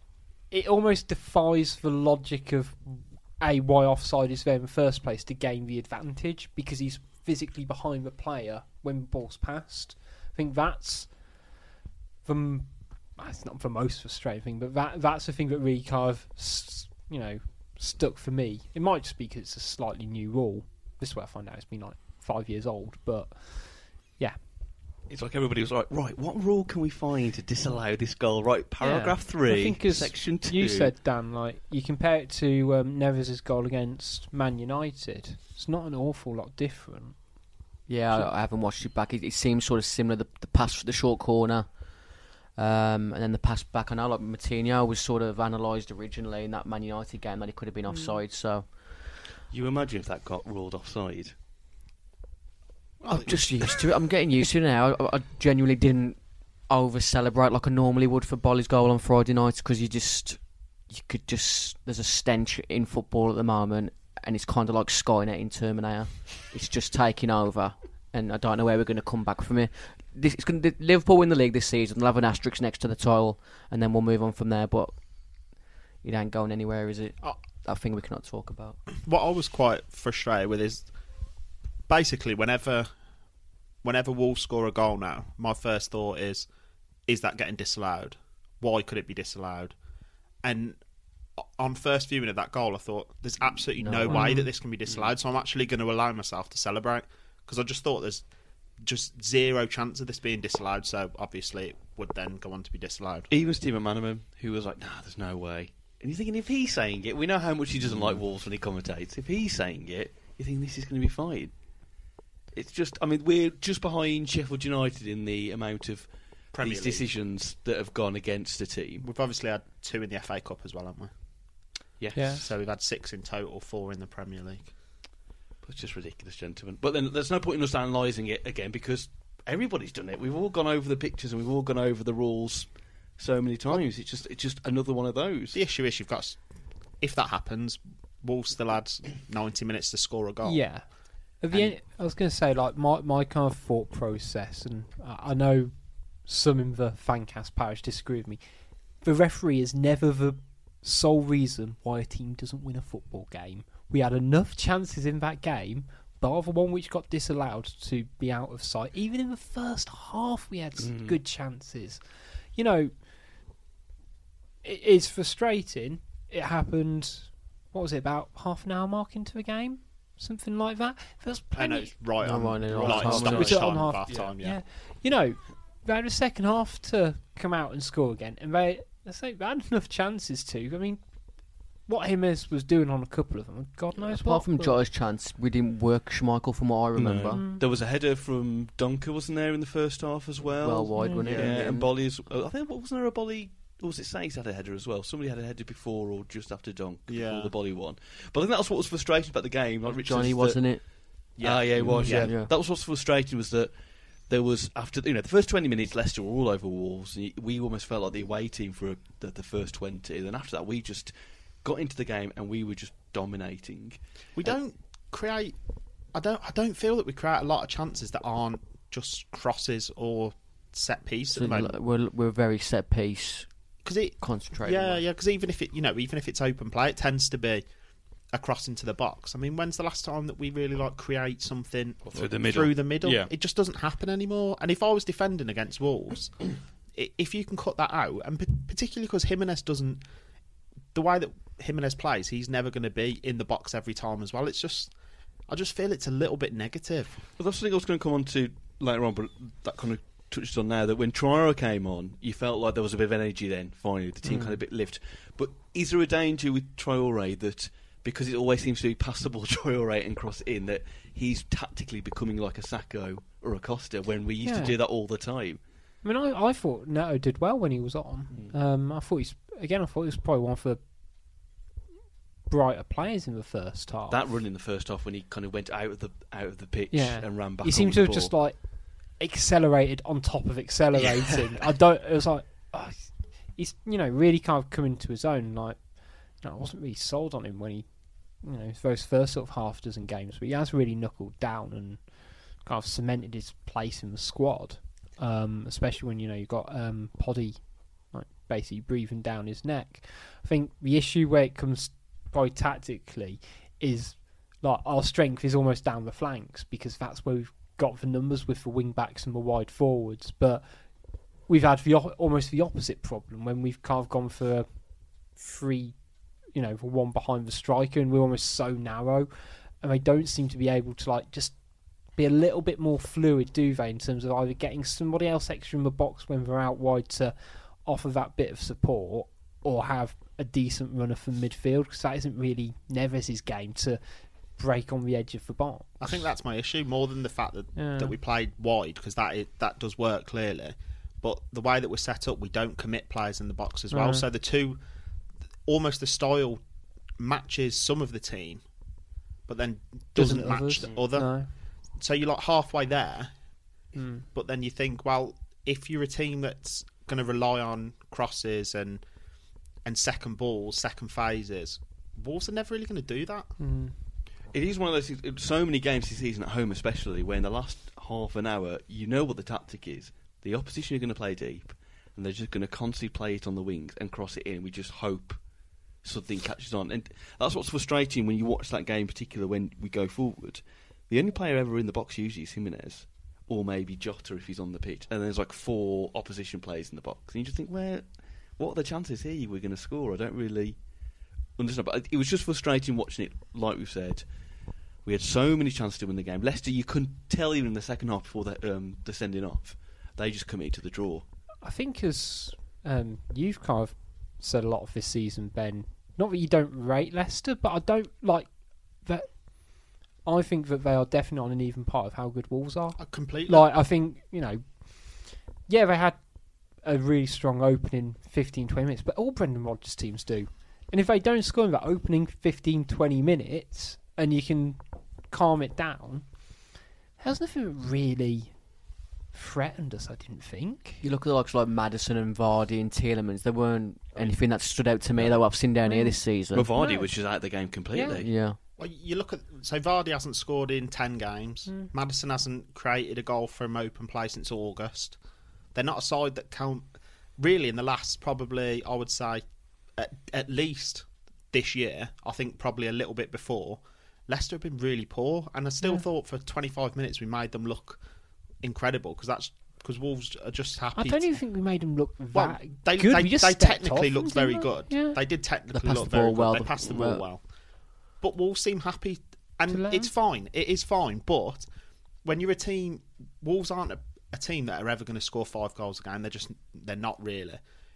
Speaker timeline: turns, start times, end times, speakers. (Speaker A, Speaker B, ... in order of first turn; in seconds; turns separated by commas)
Speaker A: 0.5-11.1, Speaker A: 12.2-24.4, Speaker B: 25.1-30.9, Speaker A: 28.8-37.2, Speaker C: 37.9-41.7, Speaker C: 42.6-48.6, Speaker A: 47.9-48.2, Speaker B: 49.5-51.3, Speaker D: 53.0-53.8, Speaker C: 53.1-74.9, Speaker C: 76.0-78.8, Speaker D: 79.1-80.9, Speaker D: 81.9-82.9, Speaker D: 83.8-86.5, Speaker D: 87.1-89.7, Speaker D: 90.4-90.8, Speaker D: 91.4-98.2, Speaker C: 93.8-94.3, Speaker A: 94.1-94.5, Speaker D: 98.8-103.3, Speaker B: 103.3-111.5, Speaker B: 112.5-119.0, Speaker D: 116.5-117.1, Speaker D: 119.0-121.1, Speaker B: 122.0-122.5, Speaker A: 122.2-122.4, Speaker D: 122.4-124.7, Speaker B: 125.6-135.6, Speaker D: 135.5-136.4, Speaker D: 137.0-140.6, Speaker A: 140.4-140.8, Speaker A: 141.4-145.7, Speaker A: 146.2-148.4, Speaker A: 149.0-162.0, Speaker B: 160.8-161.2, Speaker A: 162.5-163.0, Speaker A: 164.6-171.9, Speaker D: 171.6-174.6, Speaker C: 172.2-173.7, Speaker B: 172.8-173.5, Speaker A: 172.9-181.0, Speaker A: 181.8-184.8, Speaker C: 184.0-187.4, Speaker B: 187.0-200.7, Speaker A: 187.3-187.6, Speaker C: 190.6-191.9, Speaker A: 191.0-191.3, Speaker D: 191.3-191.6, Speaker D: 197.1-197.5, Speaker C: 200.0-200.8, Speaker D: 201.4-202.3, Speaker B: 201.4-203.7, Speaker C: 201.8-202.5, Speaker B: 204.3-214.5, Speaker D: 214.4-215.6, Speaker D: 216.1-221.7, Speaker C: 221.3-223.5, Speaker D: 223.8-227.6, Speaker C: 224.2-225.0, Speaker D: 228.3-236.3, Speaker B: 232.1-233.3, Speaker D: 236.9-240.0, Speaker D: 240.9-244.9, Speaker D: 245.5-247.2, Speaker B: 247.4-265.6, Speaker C: 254.2-254.6, Speaker A: 264.4-264.8, Speaker A: 266.0-270.8, Speaker A: 272.5-274.2, Speaker B: 274.1-278.3, Speaker A: 276.9-287.9, Speaker A: 288.4-310.6, Speaker A: 311.5-314.7, Speaker A: 315.3-316.0, Speaker A: 316.5-319.3, Speaker A: 319.8-321.6, Speaker A: 322.1-336.1, Speaker D: 336.0-344.8, Speaker A: 337.8-338.1, Speaker A: 343.9-344.3, Speaker D: 345.7-346.6, Speaker D: 347.2-348.6, Speaker D: 349.5-351.3, Speaker A: 350.1-351.5, Speaker D: 352.0-353.3, Speaker A: 353.9-354.2, Speaker D: 354.3-359.0, Speaker D: 359.9-363.5, Speaker A: 363.6-363.9, Speaker B: 364.5-375.4, Speaker B: 376.0-388.1, Speaker B: 388.6-390.8, Speaker B: 391.6-394.2, Speaker B: 395.1-401.2, Speaker A: 401.6-408.5, Speaker A: 409.0-409.4, Speaker A: 410.2-416.2, Speaker D: 413.0-413.7, Speaker A: 416.8-426.3, Speaker A: 427.2-428.6, Speaker A: 429.3-431.0, Speaker C: 431.0-436.7, Speaker B: 435.2-435.4, Speaker A: 435.8-436.2, Speaker B: 436.5-438.3, Speaker A: 436.8-437.1, Speaker A: 437.9-438.2, Speaker C: 438.1-438.6, Speaker D: 438.8-445.2, Speaker D: 445.7-446.9, Speaker D: 447.4-449.4, Speaker D: 450.0-458.0, Speaker D: 458.6-461.3, Speaker A: 461.0-465.2, Speaker D: 462.3-467.4, Speaker C: 465.7-467.3, Speaker D: 468.2-471.7, Speaker A: 469.7-470.1, Speaker D: 472.2-477.6